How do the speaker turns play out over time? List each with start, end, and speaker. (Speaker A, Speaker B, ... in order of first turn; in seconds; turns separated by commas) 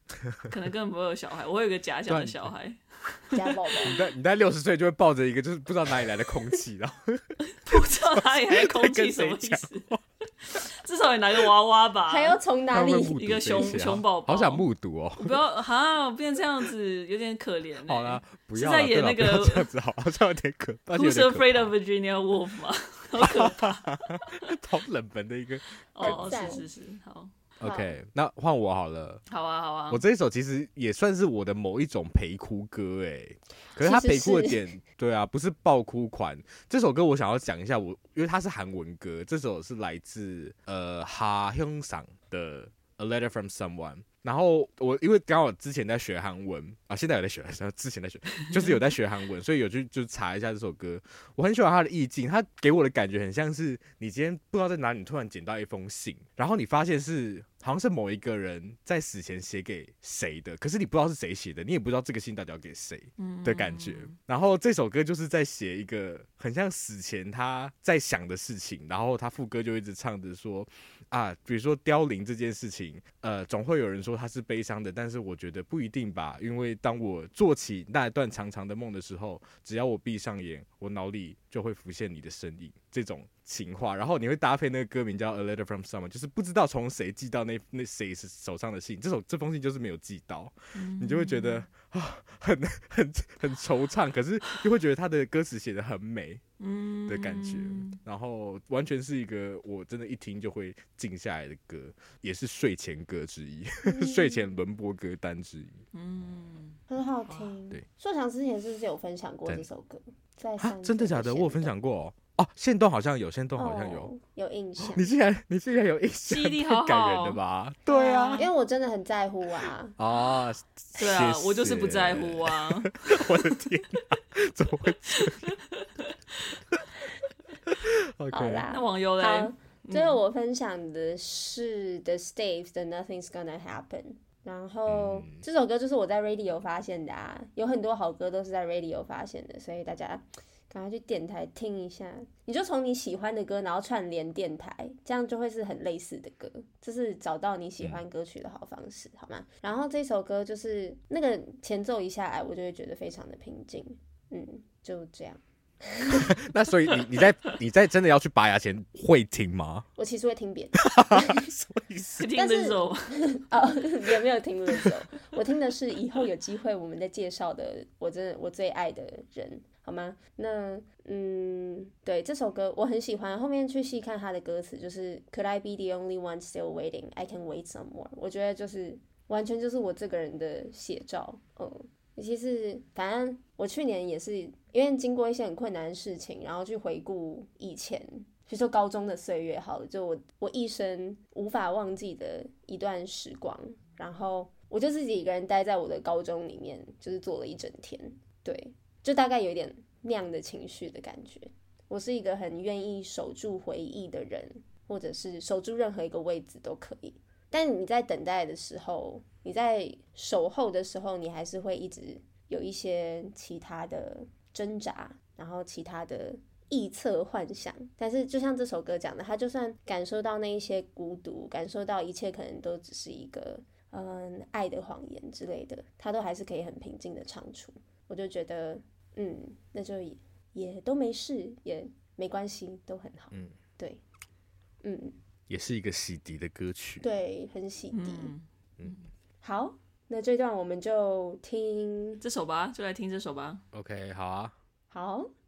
Speaker A: 0.5-4.0, Speaker B: 2.1-2.5, Speaker C: 3.3-4.0, Speaker B: 3.8-10.0, Speaker A: 7.6-14.7, Speaker C: 12.1-13.2, Speaker B: 12.7-15.4, Speaker A: 15.2-19.7, Speaker B: 17.9-21.7, Speaker A: 20.9-24.0, Speaker B: 23.2-26.6, Speaker A: 25.9-27.3, Speaker C: 26.0-26.6, Speaker B: 27.6-29.2, Speaker C: 27.6-27.9, Speaker A: 29.3-30.0, Speaker B: 29.9-96.4, Speaker C: 33.8-34.6, Speaker A: 63.2-64.2, Speaker A: 90.7-91.7, Speaker A: 96.6-98.0, Speaker B: 97.1-105.8, Speaker C: 103.9-104.6, Speaker A: 105.9-107.5, Speaker C: 106.9-111.8, Speaker B: 110.6-114.1, Speaker C: 113.6-115.1, Speaker B: 114.8-118.5, Speaker A: 116.3-118.5, Speaker C: 118.4-120.0, Speaker B: 120.0-125.5, Speaker A: 121.0-123.6, Speaker A: 125.1-126.4, Speaker B: 127.7-128.7, Speaker C: 128.3-156.3, Speaker A: 128.7-130.2, Speaker B: 134.9-135.4, Speaker B: 156.1-159.8, Speaker C: 160.0-161.5, Speaker B: 160.8-162.2, Speaker A: 162.2-163.1, Speaker C: 162.3-234.0, Speaker C: 234.8-235.2, Speaker B: 235.5-237.1, Speaker C: 237.0-238.3, Speaker A: 237.9-239.0, Speaker C: 239.4-242.2, Speaker A: 242.2-243.6, Speaker B: 243.7-244.6, Speaker C: 244.9-245.3